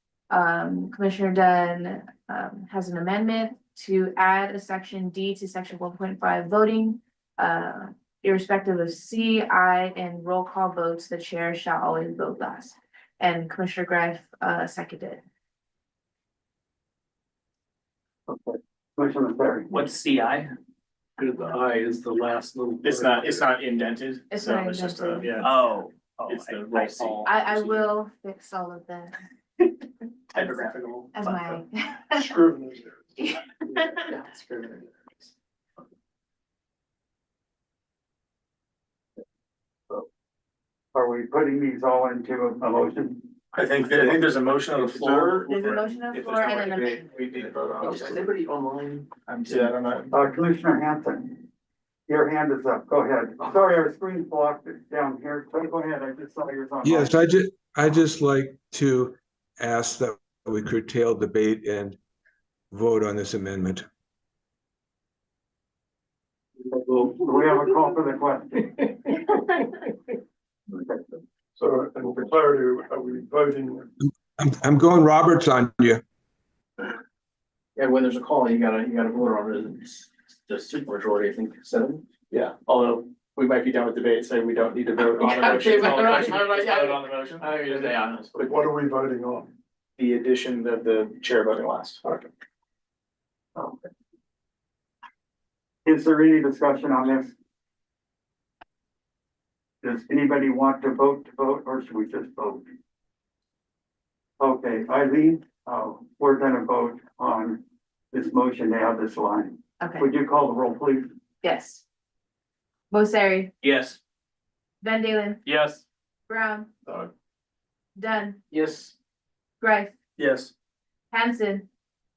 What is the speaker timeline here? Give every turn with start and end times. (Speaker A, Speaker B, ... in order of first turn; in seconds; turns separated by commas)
Speaker A: 0.3-15.2, Speaker B: 18.3-19.7, Speaker C: 19.7-20.5, Speaker D: 21.2-23.4, Speaker E: 22.8-25.6, Speaker A: 24.3-25.5, Speaker C: 25.4-27.1, Speaker E: 26.3-27.8, Speaker A: 27.2-30.6, Speaker E: 30.3-31.4, Speaker A: 31.1-32.3, Speaker F: 32.2-33.0, Speaker A: 33.2-34.1, Speaker E: 34.1-35.3, Speaker B: 40.9-43.3, Speaker E: 43.5-48.3, Speaker A: 45.5-47.1, Speaker G: 47.8-49.7, Speaker E: 49.5-50.1, Speaker B: 50.1-51.5, Speaker B: 52.1-57.3, Speaker H: 56.9-62.0, Speaker H: 62.7-63.8, Speaker B: 66.6-69.0, Speaker F: 71.6-73.9, Speaker H: 74.4-76.0, Speaker C: 75.3-75.7, Speaker G: 77.8-82.0, Speaker E: 82.3-88.4, Speaker G: 85.2-88.3, Speaker F: 88.3-89.5, Speaker E: 90.0-92.2, Speaker B: 95.8-97.3, Speaker B: 99.8-102.7, Speaker B: 104.4-111.1, Speaker A: 109.8-110.1, Speaker A: 111.4-111.8, Speaker A: 112.9-113.5, Speaker C: 113.6-114.0, Speaker A: 114.8-115.5, Speaker C: 115.5-115.8, Speaker A: 116.3-116.7, Speaker A: 118.0-118.4, Speaker G: 118.5-118.9, Speaker A: 119.6-120.0, Speaker E: 120.2-120.5, Speaker A: 121.1-121.7